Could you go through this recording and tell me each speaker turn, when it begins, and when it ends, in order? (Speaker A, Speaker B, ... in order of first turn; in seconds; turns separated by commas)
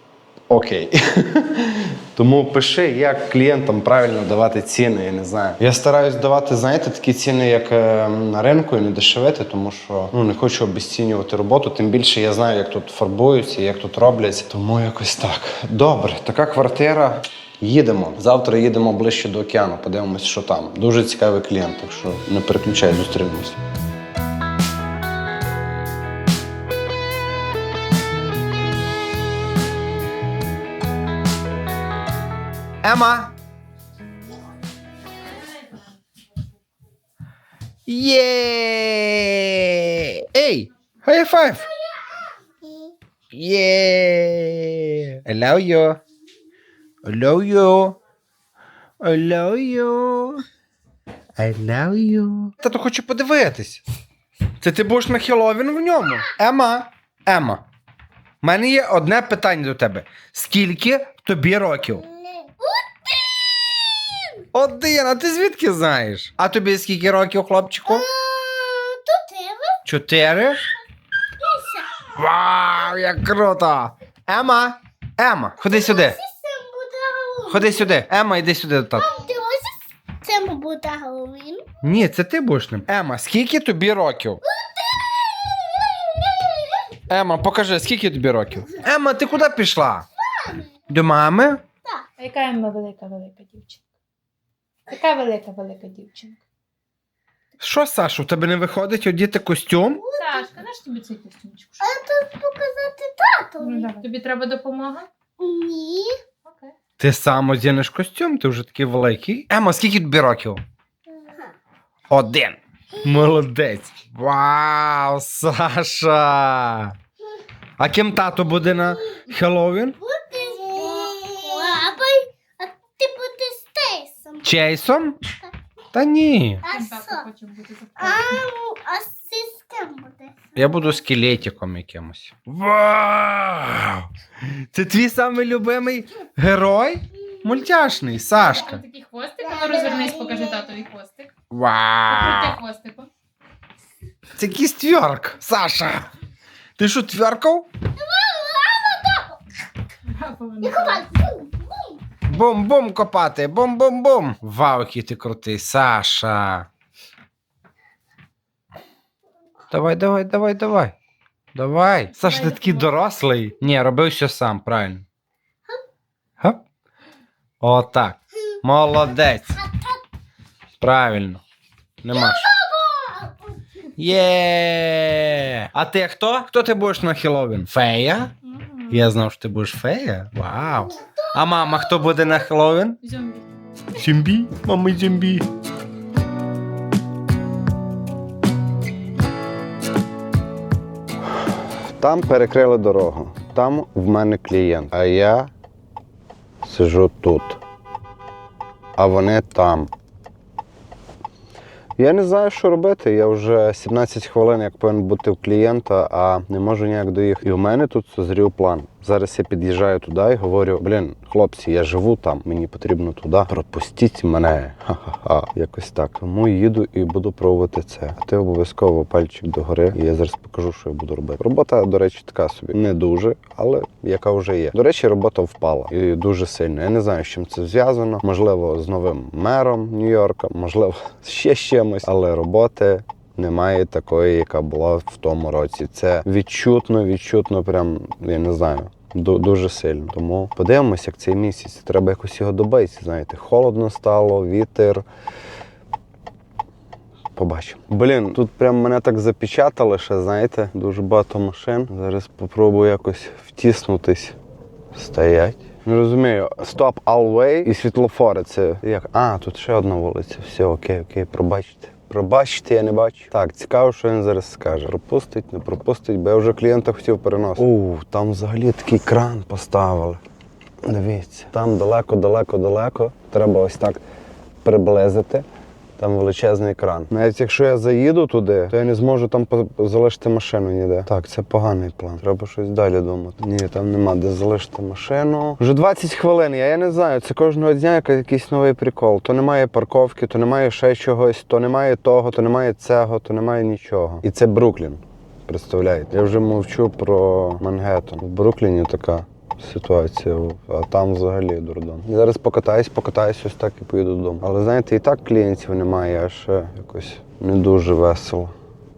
Speaker A: 0.5-23.6, Speaker A: 32.8-33.3, Speaker B: 35.2-35.9, Speaker A: 37.9-41.7, Speaker C: 42.6-42.9, Speaker A: 43.3-46.0, Speaker A: 47.0-48.0, Speaker A: 49.0-50.4, Speaker A: 51.4-53.8, Speaker A: 54.6-57.6, Speaker A: 58.4-62.0, Speaker C: 62.1-64.4, Speaker A: 64.5-68.1, Speaker C: 67.9-69.8, Speaker A: 69.8-70.6, Speaker C: 71.4-72.0, Speaker A: 72.2-76.2, Speaker C: 75.6-78.0, Speaker A: 77.5-79.1, Speaker C: 79.0-81.7, Speaker A: 81.8-84.4, Speaker C: 84.5-87.0, Speaker A: 87.1-90.1, Speaker C: 90.2-90.7, Speaker A: 90.9-91.6, Speaker B: 92.2-93.8, Speaker B: 94.9-96.4, Speaker A: 97.6-100.0, Speaker C: 100.0-100.5, Speaker B: 100.2-101.9, Speaker C: 101.8-104.0, Speaker B: 103.6-105.1, Speaker C: 105.4-106.2, Speaker B: 106.5-106.7, Speaker A: 107.0-110.6, Speaker C: 111.1-111.5, Speaker A: 112.1-117.0, Speaker A: 117.8-120.0, Speaker C: 120.0-124.5, Speaker B: 120.4-121.7, Speaker A: 124.4-125.2, Speaker A: 125.9-126.6, Speaker C: 126.6-127.3, Speaker B: 126.7-128.3, Speaker C: 128.0-130.4, Speaker A: 130.6-134.1, Speaker A: 134.7-138.8, Speaker B: 138.3-141.3, Speaker C: 139.4-140.7, Speaker A: 141.5-142.6, Speaker B: 142.1-143.1, Speaker A: 144.4-146.1, Speaker A: 146.8-147.7, Speaker C: 148.0-149.4, Speaker B: 150.1-151.1, Speaker C: 150.6-152.0, Speaker A: 152.3-156.7, Speaker A: 159.7-160.9, Speaker A: 161.6-165.0, Speaker B: 162.2-162.9, Speaker A: 167.6-169.6, Speaker C: 169.6-170.0, Speaker A: 170.8-171.4, Speaker A: 172.0-172.5, Speaker C: 172.1-173.4, Speaker A: 174.0-178.3, Speaker B: 178.5-178.9, Speaker A: 178.9-183.0, Speaker B: 183.0-183.5, Speaker A: 183.9-185.5, Speaker A: 192.0-195.5, Speaker A: 196.6-197.6, Speaker A: 199.0-199.9, Speaker A: 202.0-245.0, Speaker A: 247.4-254.4, Speaker A: 254.9-270.2, Speaker A: 270.8-274.0, Speaker A: 274.6-275.4, Speaker A: 276.0-308.5